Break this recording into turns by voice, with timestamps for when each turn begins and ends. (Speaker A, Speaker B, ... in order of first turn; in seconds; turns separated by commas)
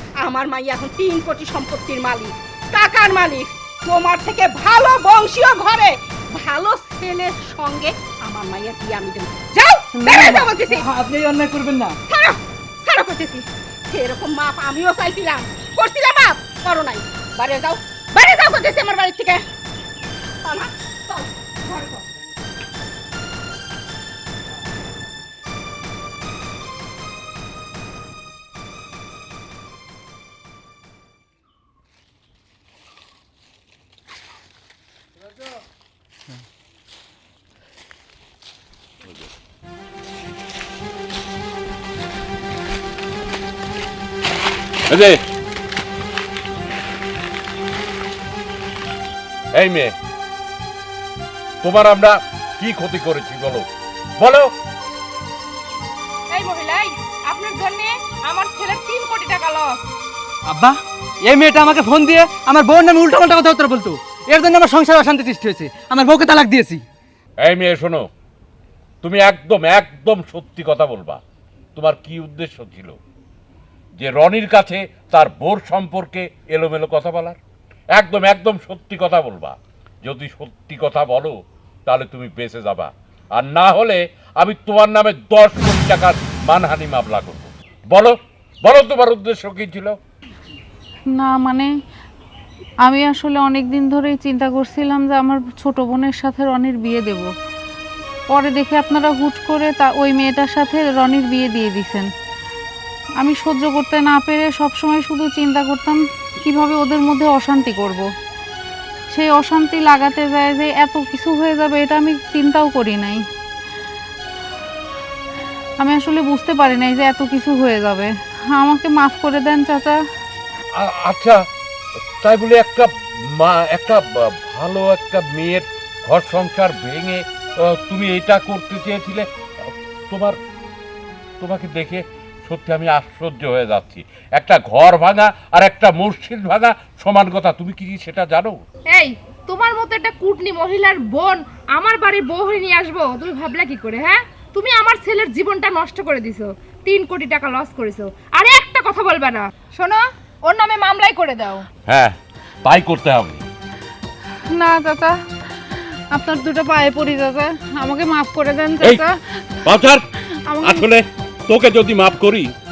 Speaker A: 0.2-10.8, Speaker B: 10.0-11.9, Speaker A: 12.1-19.4, Speaker A: 20.4-22.0, Speaker C: 44.9-45.2, Speaker C: 49.5-49.9, Speaker C: 51.6-53.7, Speaker C: 54.2-54.5, Speaker D: 56.3-59.9, Speaker B: 60.5-60.8, Speaker B: 61.3-66.8, Speaker C: 67.4-68.1, Speaker C: 69.0-71.2, Speaker C: 71.8-73.0, Speaker C: 74.0-77.4, Speaker C: 78.0-90.0, Speaker E: 91.1-91.7, Speaker E: 92.8-97.3, Speaker E: 98.3-102.1, Speaker E: 103.2-108.1, Speaker E: 109.1-113.2, Speaker E: 115.8-120.0, Speaker C: 120.8-121.4, Speaker C: 122.2-130.4, Speaker C: 131.4-138.6, Speaker D: 138.9-151.7, Speaker C: 151.9-153.4, Speaker E: 154.4-159.2, Speaker C: 159.7-160.1, Speaker E: 160.5-160.9, Speaker C: 160.6-162.5